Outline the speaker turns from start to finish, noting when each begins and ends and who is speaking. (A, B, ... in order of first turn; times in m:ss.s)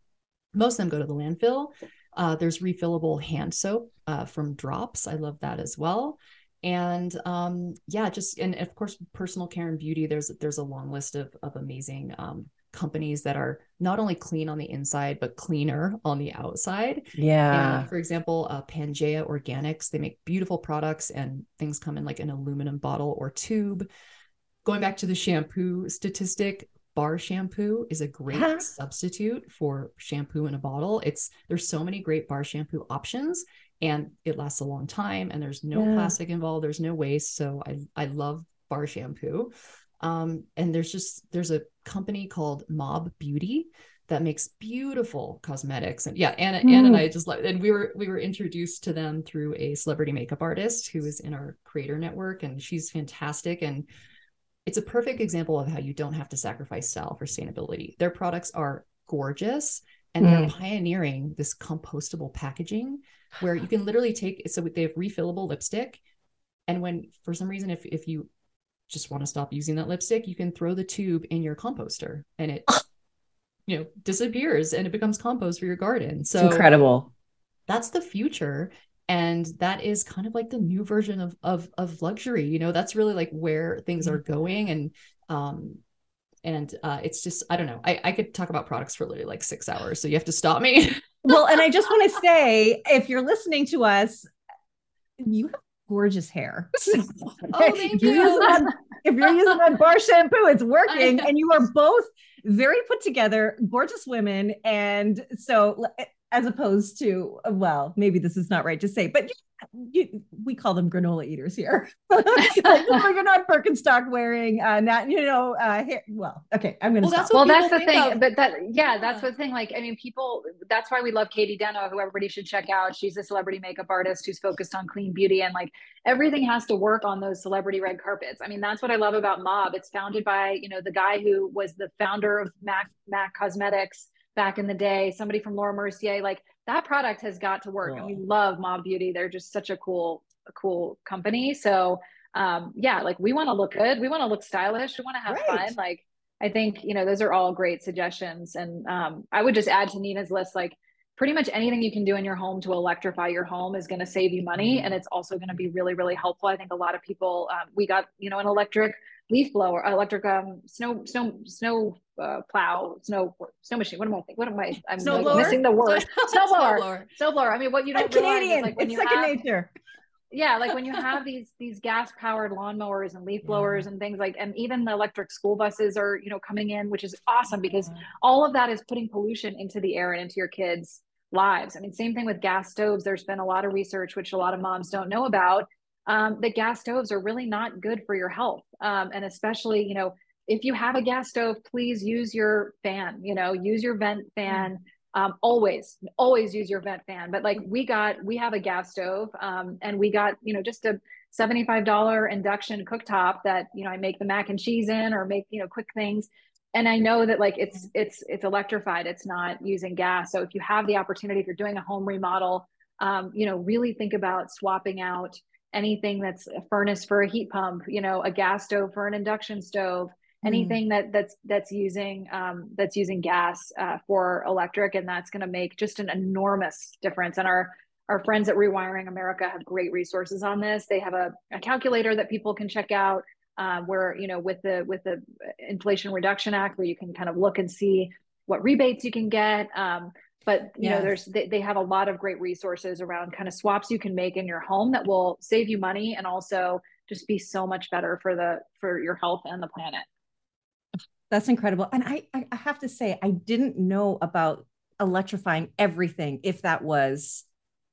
0:00.5-0:23.9 A
0:17.2-0:17.9 B
0:24.6-0:53.8 A
0:28.3-0:28.7 B
0:35.8-0:36.1 B
0:46.6-0:47.1 B
0:54.7-1:06.0 A
1:00.2-1:00.5 B
1:06.7-1:08.3 A
1:08.9-1:12.8 A
1:13.7-1:16.7 A
1:16.4-1:17.1 B
1:17.7-1:25.8 A
1:26.4-1:31.4 A
1:31.2-1:34.3 B
1:35.2-1:57.3 B
1:37.5-1:38.7 A
1:40.9-1:41.3 A
1:57.0-1:58.2 A
1:57.3-2:49.4 C
1:59.0-1:59.3 A
2:17.8-2:18.2 B
2:25.3-2:25.7 B
2:45.0-2:45.6 B
2:45.0-2:47.1 A
2:47.9-2:49.7 B
2:50.3-4:10.1 C
2:53.4-2:53.9 B
3:40.4-3:40.8 B
4:00.8-4:01.2 B
4:11.3-4:17.5 B